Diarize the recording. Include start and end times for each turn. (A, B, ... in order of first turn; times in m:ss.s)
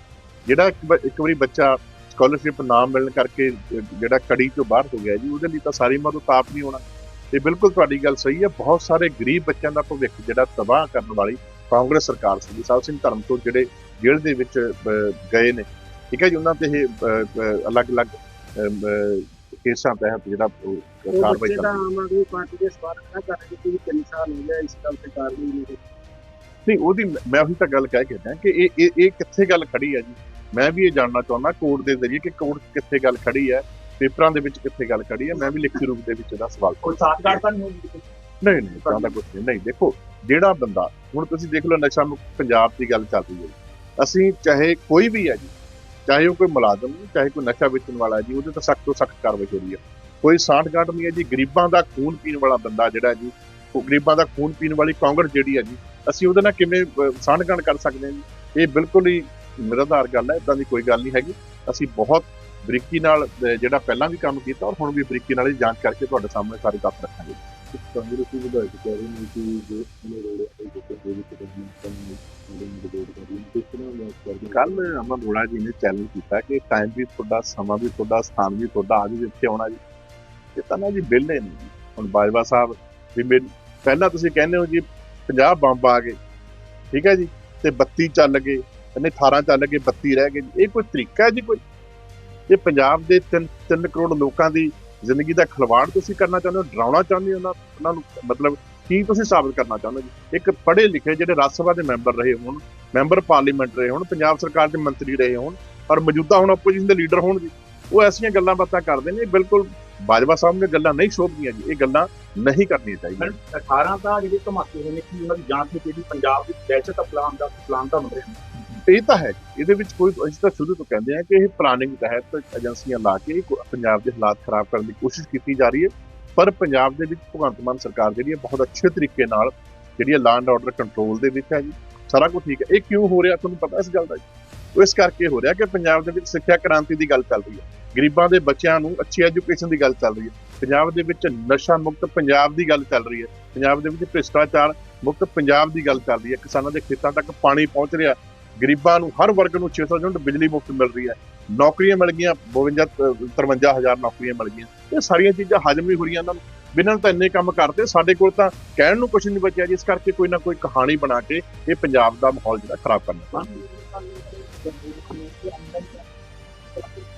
0:00.5-0:21.8 A
0:21.1-0:25.8 B
0:26.6-0:37.4 A
0:36.8-0:38.0 C
0:38.4-0:45.5 A
0:38.8-0:39.2 C
0:46.1-1:07.4 A
1:07.7-1:14.9 D
1:14.5-1:19.8 A
1:20.5-1:26.2 A
1:26.9-1:31.6 A
1:32.5-1:53.3 A
1:53.2-1:58.4 C
1:58.9-2:14.2 A
2:14.7-2:43.4 A
2:43.5-2:46.0 B
2:46.7-2:47.0 B